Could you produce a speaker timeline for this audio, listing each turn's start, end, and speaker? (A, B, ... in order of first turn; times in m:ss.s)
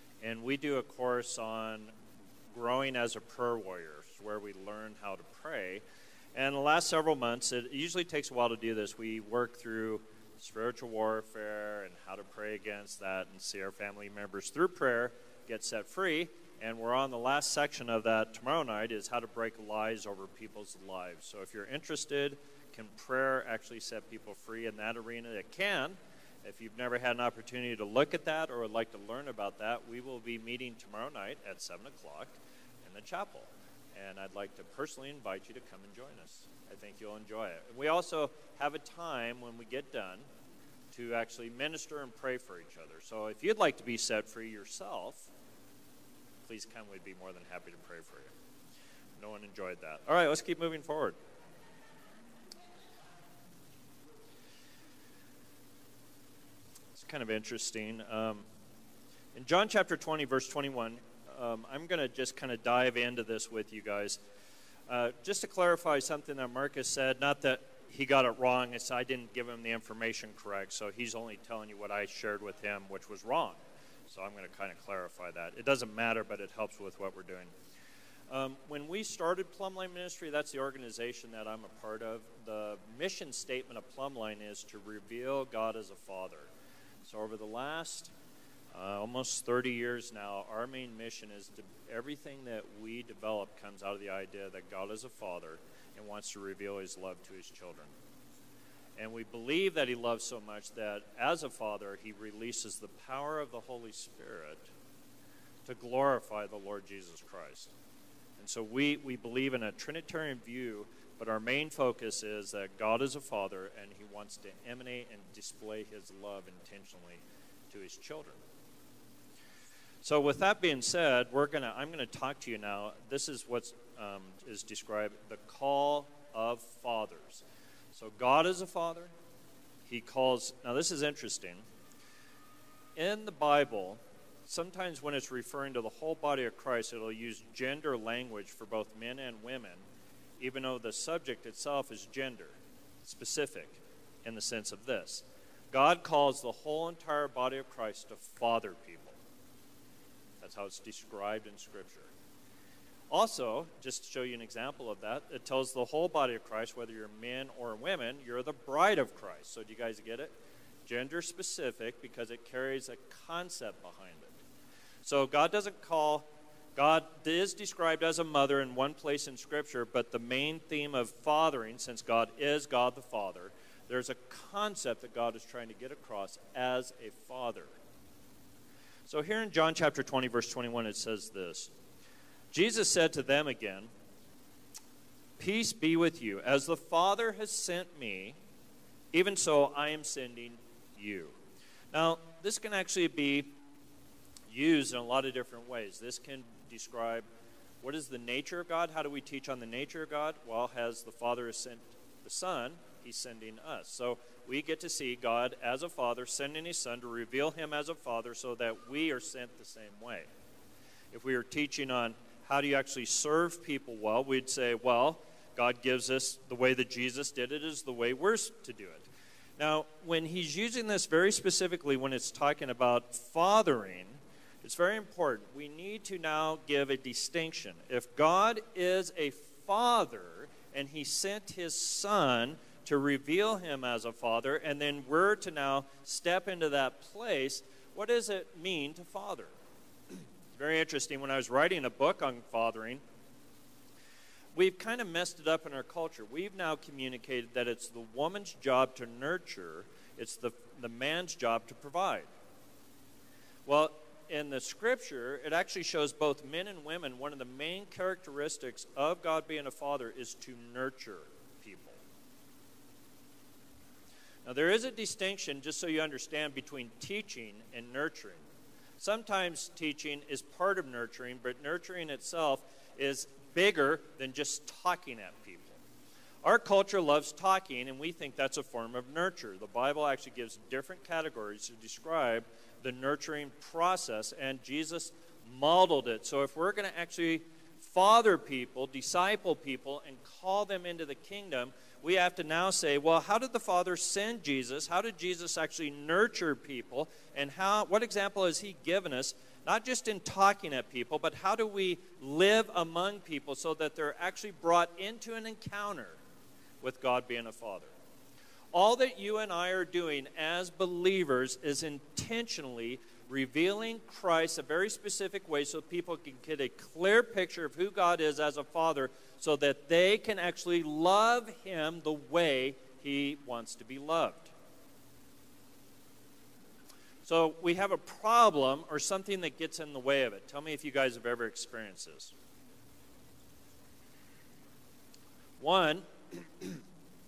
0:00.2-0:01.9 A
0:02.5-0:05.8 A
0:06.3-0:40.2 A
0:40.9-0:45.3 A
0:46.4-0:48.3 A
0:49.2-0:51.2 A
0:56.9-0:58.4 A
0:59.3-1:04.2 A
1:04.9-1:17.5 A
1:18.3-1:26.5 A
1:27.0-1:28.1 A
1:28.7-1:37.9 A
1:39.0-1:44.7 A
1:45.6-1:47.7 A
1:48.4-1:58.4 A
2:00.0-2:09.1 A
2:09.8-2:11.6 A
2:13.0-2:19.8 A
2:20.4-2:29.2 A
2:30.4-2:32.1 A
2:33.1-2:40.3 A
2:40.8-2:44.4 A
2:45.0-2:57.7 A
2:59.0-3:01.7 A
3:02.5-3:03.9 A
3:05.4-3:08.4 A
3:09.1-3:11.4 A
3:11.9-3:13.5 A
3:14.5-3:17.2 A
3:17.8-3:30.3 A
3:31.1-3:59.5 A
4:00.5-4:03.0 A
4:04.5-4:12.3 A
4:13.6-4:22.0 A
4:24.4-4:28.4 A
4:29.0-4:35.8 A
4:36.4-5:06.2 A
5:06.8-5:07.9 A
5:08.7-5:24.5 A
5:27.2-5:32.3 A
5:35.6-5:36.8 A